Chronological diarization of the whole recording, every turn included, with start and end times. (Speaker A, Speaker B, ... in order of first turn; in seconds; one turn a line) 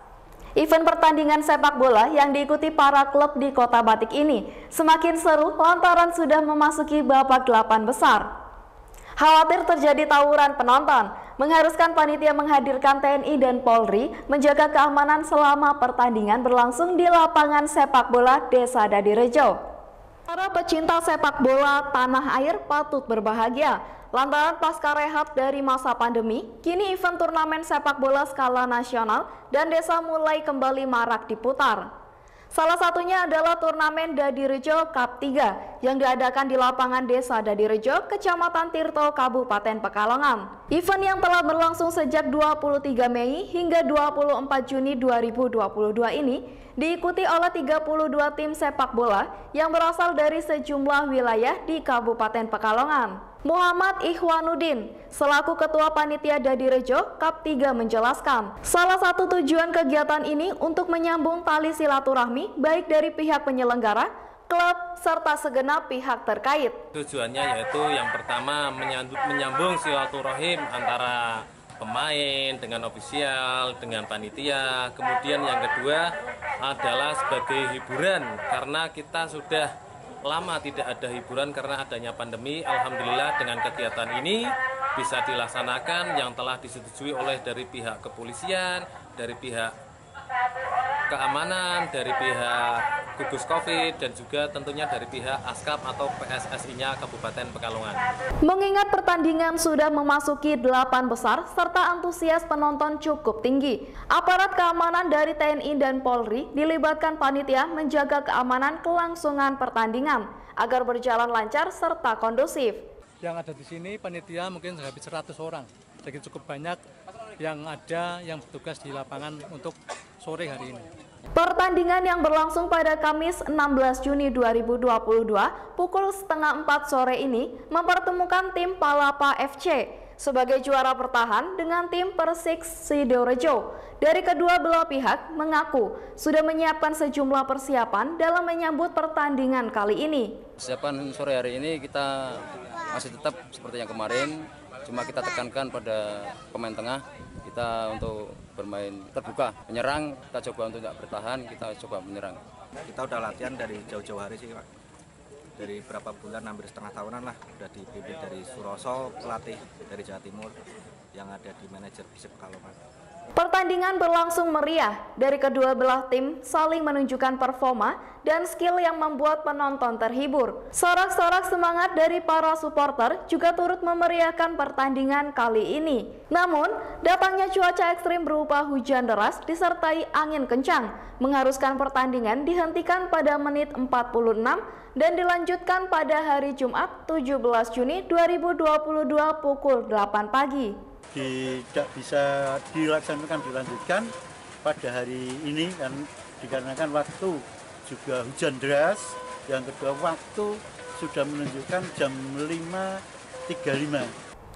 Speaker A: 0.6-8.3
Speaker A: 9.2-19.6
Speaker A: 20.3-31.9
Speaker A: 32.5-66.8
Speaker B: 66.9-76.1
Speaker B: 76.6-79.7
Speaker B: 80.3-89.7
Speaker B: 91.1-98.0
Speaker A: 98.4-112.8
Speaker C: 113.2-116.8
Speaker C: 117.4-120.9
Speaker A: 121.3-140.4
Speaker D: 140.6-142.3
Speaker D: 142.9-152.4
Speaker E: 152.9-154.7
Speaker E: 155.6-160.6
Speaker E: 161.1-162.8
Speaker A: 163.4-190.8
Speaker F: 191.1-194.1
Speaker F: 194.6-204.1